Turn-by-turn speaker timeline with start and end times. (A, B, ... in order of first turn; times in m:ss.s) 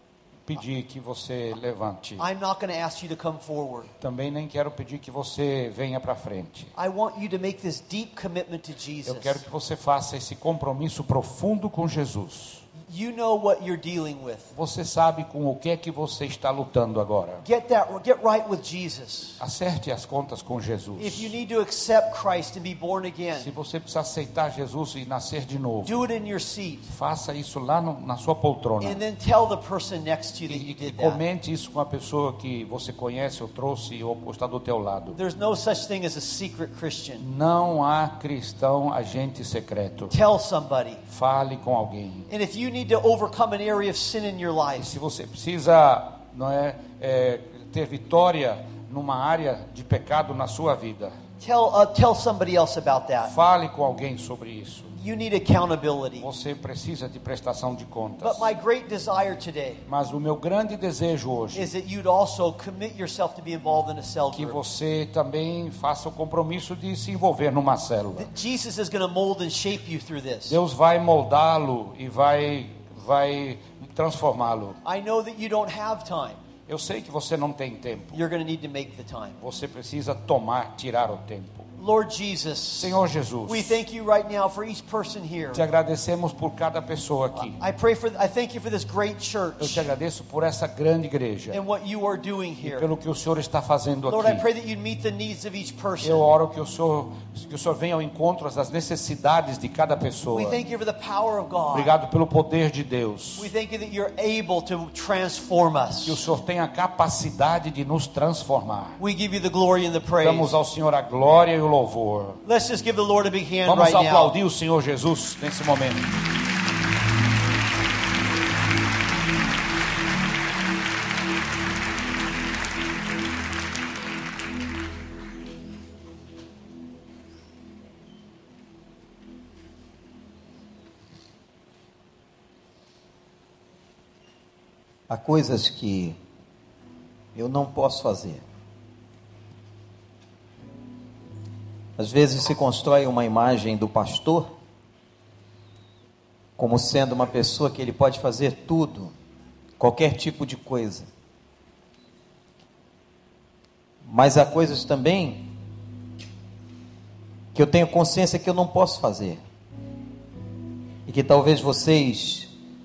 0:00.5-0:02.2 A
0:02.2-0:03.9 B
0:04.0-0:06.7 A
0:06.8-0:09.4 B
0:09.0-0:12.6 A
0:12.9-0:14.5 B
0:14.5-0:17.4 A
0:17.4-0:19.4 B
0:19.4-0:21.3 A
0:21.0-0:23.5 B
0:23.4-0:26.0 A
0:25.8-0:26.9 B
0:26.9-0:29.0 A
0:28.8-0:31.2 B
0:30.5-0:35.2 A
0:35.2-0:37.2 B
0:37.2-0:40.1 A
0:40.1-0:41.0 B
0:41.1-0:42.3 A
0:42.3-0:44.9 B
0:44.8-0:51.1 A
0:51.4-0:53.3 B
0:53.2-0:54.9 A
0:55.0-0:56.3 B
0:56.2-0:58.5 A
0:58.2-0:59.8 B
0:59.9-1:01.6 A
1:01.5-1:04.6 B
1:04.3-1:08.3 A
1:08.2-1:10.6 B
1:10.5-1:14.8 A
1:14.8-1:16.4 B
1:16.7-1:18.2 A
1:18.1-1:19.4 B
1:19.4-1:21.7 A
1:21.8-1:25.6 B
1:22.8-1:23.8 A
1:25.5-1:27.6 A
1:27.4-1:29.9 B
1:29.6-1:31.6 A
1:31.5-1:32.9 B
1:32.6-1:34.4 A
1:34.1-1:36.2 B
1:36.0-1:40.6 A
1:40.3-1:41.9 B
1:41.7-1:43.5 A
1:43.4-1:46.2 B
1:46.0-1:49.0 A
1:49.0-1:50.6 B
1:50.2-1:52.4 A
1:52.4-1:54.3 B
1:53.6-1:56.1 A
2:15.1-2:16.2 C
2:17.3-2:18.4 C
2:22.0-2:24.5 C
2:26.6-2:29.1 C
2:29.8-2:31.1 C
2:34.0-2:35.4 C
2:37.5-2:39.4 C
2:41.0-2:42.5 C